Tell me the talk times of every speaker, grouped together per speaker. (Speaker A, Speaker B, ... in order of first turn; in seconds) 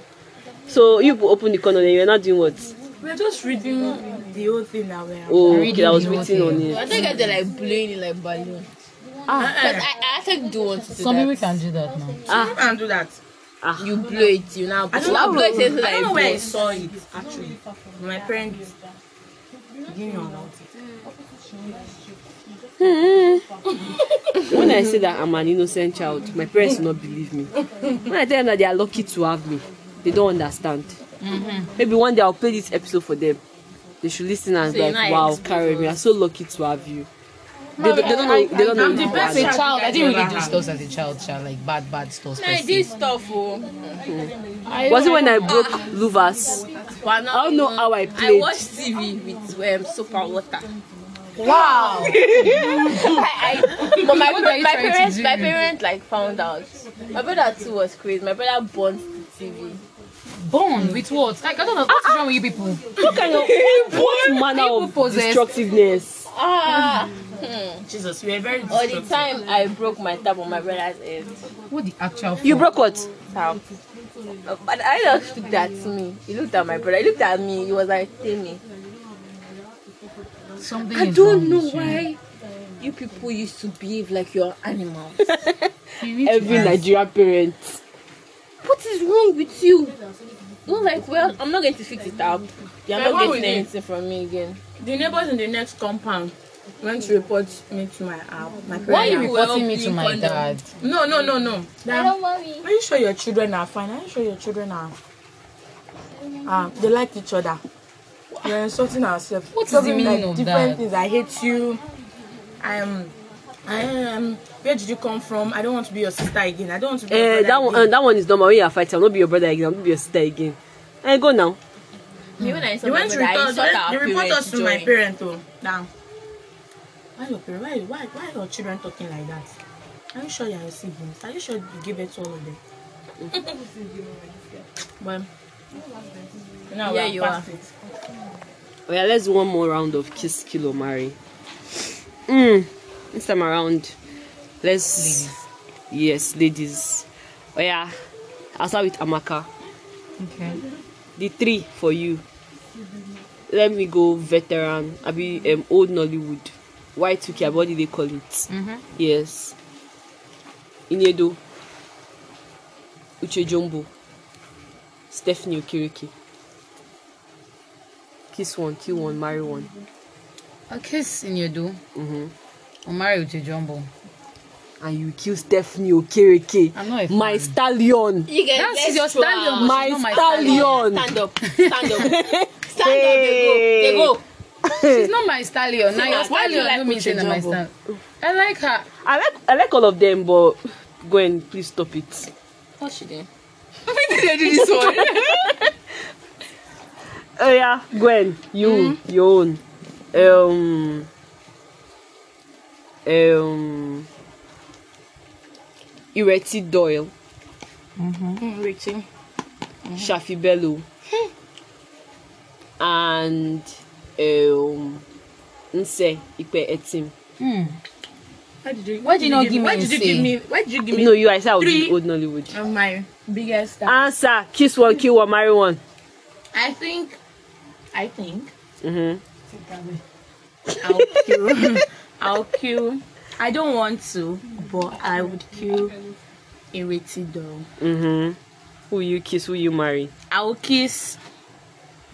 Speaker A: 0.7-2.7, 5.3-7.0, 9.3-9.6, 12.3-12.6, 13.6-13.9, 15.0-15.6, 22.8-23.5, 24.4-27.5, 28.1-31.0, 31.8-33.4, 34.0-37.1, 37.8-39.6, 44.9-46.6, 47.3-48.6, 61.9-62.2, 63.0-66.3, 72.4-73.1, 86.2-87.8, 117.1-121.6, 138.9-141.2, 142.3-143.9, 144.6-145.3, 145.9-147.9, 148.6-149.5, 151.2-152.2, 153.5-159.6, 160.9-161.4, 163.2-163.9, 165.1-166.1, 168.3-169.7, 171.9-172.3, 174.8-178.3, 179.6-181.1, 181.9-185.1, 189.0-192.3, 197.4-199.6, 200.1-201.1, 203.1-204.1, 206.1-207.1, 210.0-210.8, 212.8-215.0, 215.7-217.1, 220.9-222.6, 223.8-225.8, 228.8-229.2, 230.7-231.6, 237.8-238.4, 238.9-240.1
Speaker B: 3.0-6.2, 9.3-9.9, 12.3-13.2, 14.9-18.7, 19.8-20.7, 37.8-40.6, 51.4-53.2, 63.2-64.0, 67.9-69.3, 92.9-93.7, 94.8-99.4, 100.8-105.0, 106.4-107.6, 108.4-111.8, 112.6-113.1, 113.6-117.9, 122.8-125.9, 127.2-129.5, 130.1-132.6, 135.0-135.3, 136.7-137.7, 193.9-195.6, 198.6-198.9, 208.4-209.1, 218.6-221.9, 222.5-224.1, 226.5-227.2, 227.9-228.5, 230.8-235.9, 236.7-237.7, 240.3-241.2
Speaker C: 5.5-7.3, 11.0-12.2, 31.2-31.7, 37.8-42.9, 44.7-45.6, 51.4-52.5, 54.0-55.5, 60.4-65.5, 71.7-72.7, 80.6-82.0, 86.0-86.8, 98.9-100.6, 109.5-110.8, 145.0-145.4, 150.2-150.6, 158.5-158.8, 170.7-171.8, 172.8-173.9, 176.7-177.5, 178.5-180.8, 181.4-182.1, 184.7-188.9, 208.0-208.4, 217.4-217.8, 219.0-220.3, 229.6-230.0
Speaker D: 6.7-8.7, 9.4-11.5, 13.8-16.5, 34.6-36.0, 42.3-44.1, 44.6-45.8, 47.0-50.7, 51.5-59.8, 63.3-63.9, 66.3-67.8, 68.7-71.4, 73.3-73.6, 74.4-78.6, 80.9-82.2, 82.8-85.5, 88.6-90.0, 90.7-94.6, 98.8-100.5, 101.8-102.7, 122.4-124.9, 136.8-137.5, 178.3-184.2, 185.9-187.6, 192.8-193.3, 194.3-195.6